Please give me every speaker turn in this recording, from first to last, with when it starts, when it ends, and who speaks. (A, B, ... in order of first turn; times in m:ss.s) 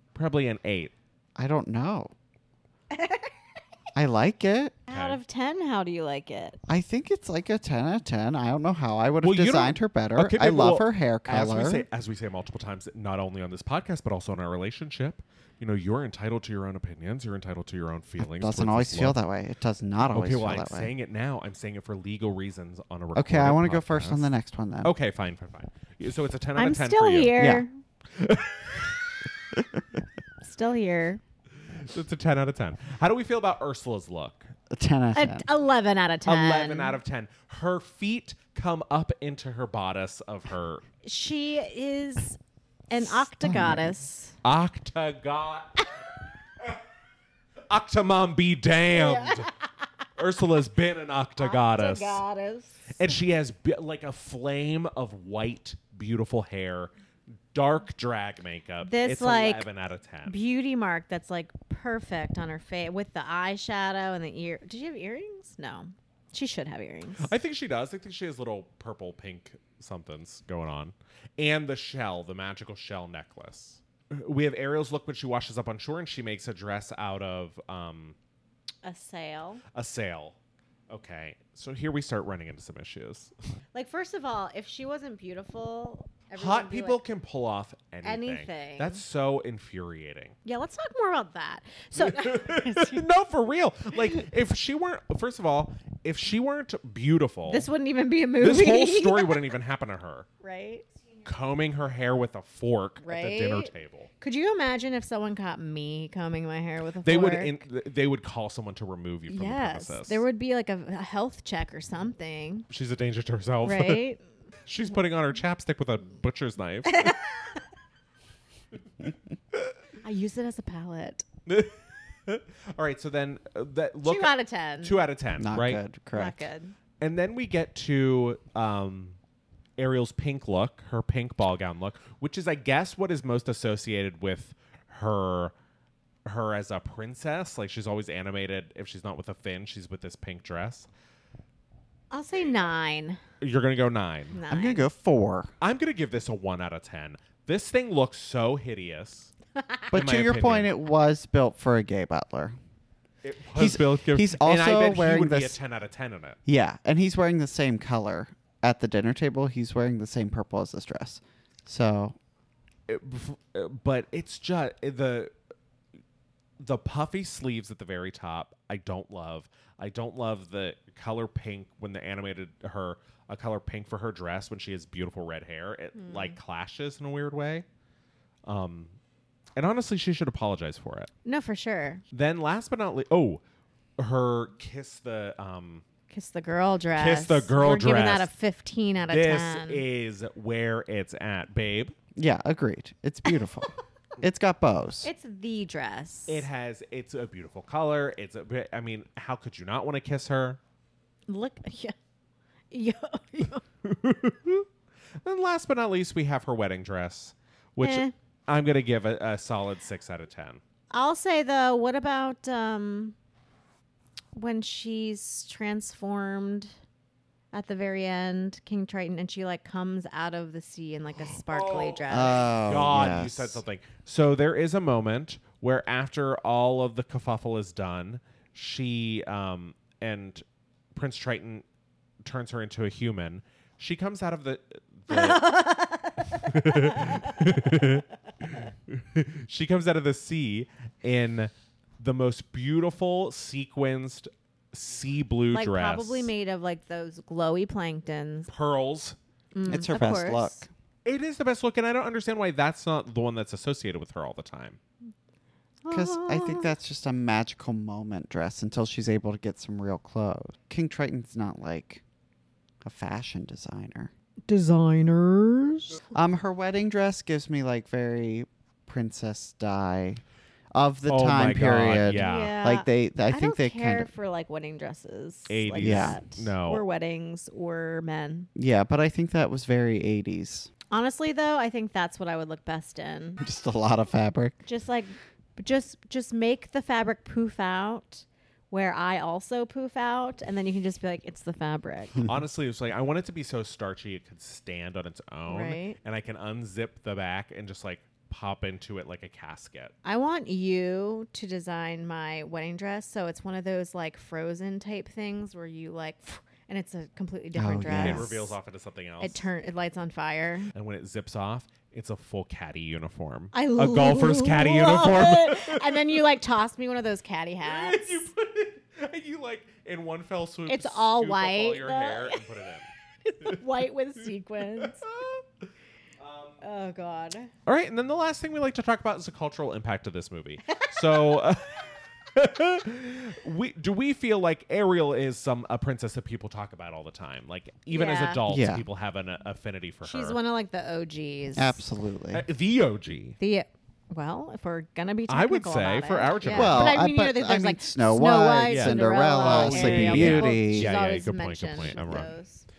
0:00.2-0:00.9 A
0:01.4-0:02.1 B
0:03.0-0:03.3 C
0:04.0-0:04.8 B
0:04.9-0:06.6 C
0:04.9-0:05.2 A
0:06.7-0:11.9 B
0:09.2-0:19.2 A
0:18.2-0:20.9 B
0:20.1-0:24.3 A
0:23.2-0:24.9 B
0:24.8-0:27.4 A
0:26.6-0:27.7 C
0:27.4-0:27.6 B
0:28.1-0:29.2 A
0:30.4-0:31.2 C
0:31.6-0:34.5 A
0:34.7-0:35.5 B
0:35.2-0:37.0 C
0:36.2-0:40.8 A
0:41.0-0:42.4 C
0:42.9-0:44.4 C
0:43.4-0:43.9 B
0:44.4-0:45.9 A
0:47.7-0:49.5 A
0:48.9-0:49.6 C
0:50.2-0:52.2 A
0:51.4-0:53.0 C
0:52.9-0:56.9 A
0:57.5-1:00.4 A
0:58.8-0:59.7 C
1:00.3-1:07.3 C
1:07.2-1:18.2 A
1:18.8-1:19.6 C
1:19.7-1:20.4 A
1:20.9-1:23.3 A
1:23.7-1:27.0 C
1:26.4-1:30.4 A
1:28.0-1:29.0 C
1:30.4-1:33.0 C
1:32.0-1:37.7 A
1:37.5-1:39.4 C
1:38.4-1:40.3 A
1:40.4-1:40.9 C
1:41.2-1:44.1 A
1:43.0-1:47.6 C
1:47.0-1:50.2 A
1:49.3-1:52.7 C
1:52.7-1:54.0 A
1:53.6-1:54.2 C
1:54.7-1:57.2 A
1:56.9-1:57.6 C
2:00.0-2:01.3 C
2:01.5-2:05.8 A
2:04.0-2:05.0 C
2:05.4-2:06.4 B
2:06.1-2:06.8 C
2:07.0-2:09.2 A
2:09.8-2:15.5 A
2:16.3-2:20.9 A
2:22.1-2:23.2 C
2:23.4-2:24.4 A
2:24.3-2:24.8 C
2:24.5-2:25.5 B
2:25.6-2:29.3 A
2:29.9-2:32.6 B
2:29.9-2:30.7 A
2:33.2-2:36.4 A
2:33.6-2:35.6 B
2:36.5-2:42.2 B
2:42.9-2:45.3 A
2:46.6-2:57.7 A
2:56.0-2:56.4 C
2:58.4-2:58.9 A
2:59.6-3:01.1 A
3:01.2-3:02.0 C
3:02.1-3:03.4 A
3:04.0-3:05.8 A
3:06.1-3:09.8 C
3:07.0-3:08.3 A
3:09.1-3:12.0 A
3:12.2-3:15.1 B
3:15.0-3:16.5 C
3:16.3-3:20.6 A
3:21.3-3:22.0 C
3:22.7-3:23.6 C
3:23.8-3:24.7 A
3:25.2-3:30.6 A
3:27.8-3:28.1 C
3:30.9-3:33.2 C
3:34.4-3:36.7 C
3:37.5-3:42.5 C
3:41.5-3:51.7 A
3:42.1-3:43.6 B
3:52.2-3:55.5 A
3:55.1-3:58.0 C
3:56.4-3:58.1 A
3:58.9-4:06.3 A
4:05.5-4:08.5 C
4:08.5-4:09.2 A
4:09.5-4:10.6 C
4:09.7-4:10.7 B
4:11.0-4:14.8 A
4:15.8-4:16.7 C
4:15.9-4:22.0 B
4:22.8-4:24.1 B
4:24.5-4:26.0 C
4:26.1-4:30.2 B
4:30.7-4:34.1 B
4:31.1-4:32.6 A
4:32.1-4:38.5 C
4:35.5-4:36.8 A
4:35.8-4:36.2 B
4:38.6-4:40.7 B
4:40.9-4:43.4 C
4:43.4-4:44.6 B
4:44.6-4:52.2 C
4:52.2-4:59.9 A
4:55.5-4:56.0 C
5:00.0-5:08.5 C
5:07.6-5:08.3 B
5:07.9-5:09.4 A
5:09.2-5:10.7 C
5:10.7-5:16.1 A
5:13.5-5:18.3 C
5:17.6-5:22.9 A
5:20.7-5:22.4 C
5:23.2-5:25.0 C
5:24.8-5:25.7 A
5:26.2-5:26.6 A
5:26.6-5:27.5 C
5:27.7-5:40.4 A
5:30.7-5:31.4 C
5:37.9-5:38.4 C
5:38.5-5:38.9 B
5:40.0-5:41.8 C
5:41.6-5:42.5 B
5:42.3-5:43.4 A
5:43.4-5:52.7 C
5:45.3-5:47.0 A
5:46.5-5:50.9 B
5:48.7-5:52.4 A